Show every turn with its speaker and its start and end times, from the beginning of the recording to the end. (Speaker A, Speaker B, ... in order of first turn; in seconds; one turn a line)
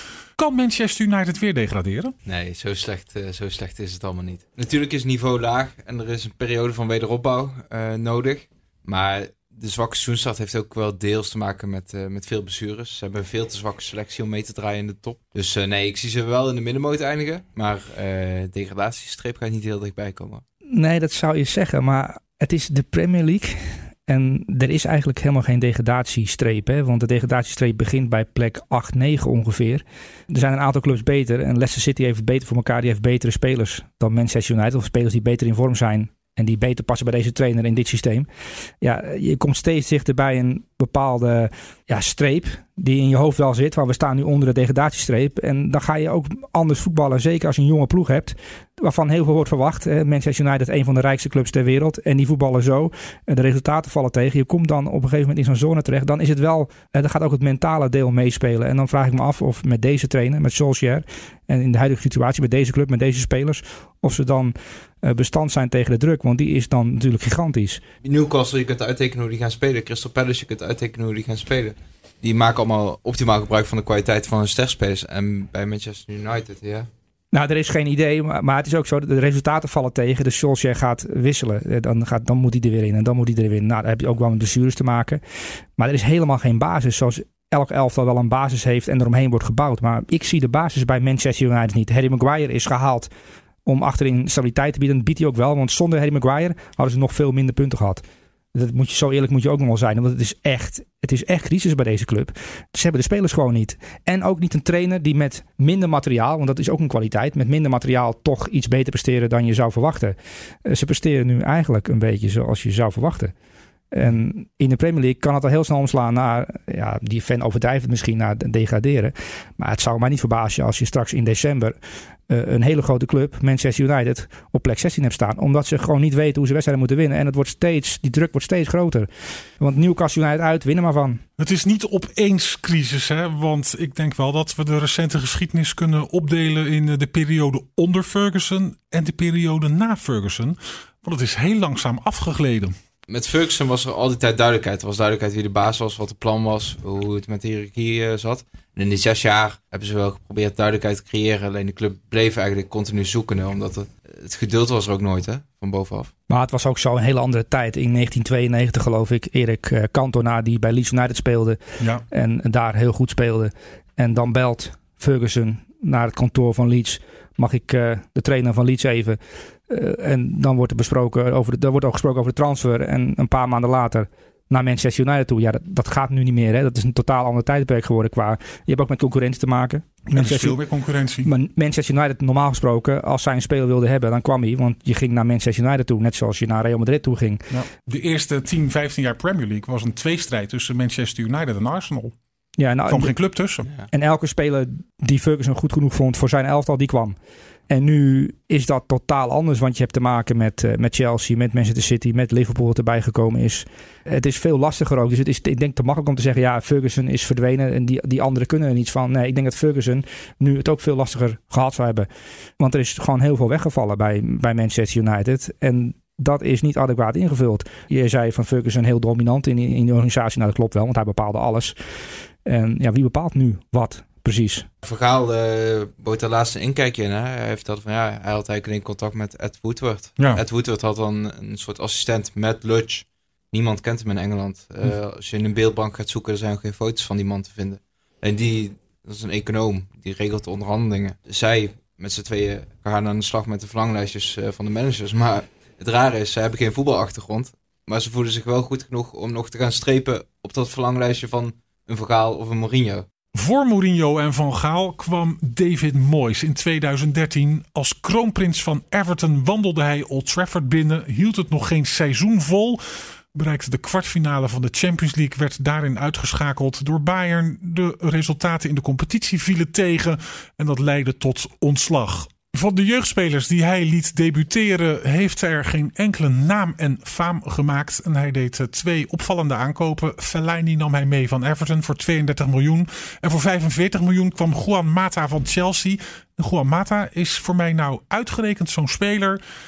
Speaker A: 0.4-2.1
Speaker B: 2.2-20.4
Speaker C: 20.7-38.3
Speaker C: 38.8-67.8
Speaker B: 68.0-76.9
Speaker C: 77.3-85.2
Speaker C: 85.8-93.1
Speaker C: 93.7-98.0
Speaker C: 98.5-113.3
Speaker C: 113.9-121.8
Speaker C: 122.3-129.1
Speaker C: 129.6-131.2
Speaker A: 131.4-142.7
Speaker B: 143.1-156.1
Speaker C: 156.3-180.6
Speaker A: 180.1-181.3
Speaker C: 181.2-187.5
Speaker A: 187.5-192.1
Speaker C: 192.6-193.2
Speaker A: 192.9-193.7
Speaker C: 193.9-197.2
Speaker C: 197.7-212.1
Speaker C: 212.6-221.8
Speaker C: 222.4-224.7
Speaker B: 224.8-253.1
Speaker A: 253.3-262.8
Speaker A: 263.3-289.4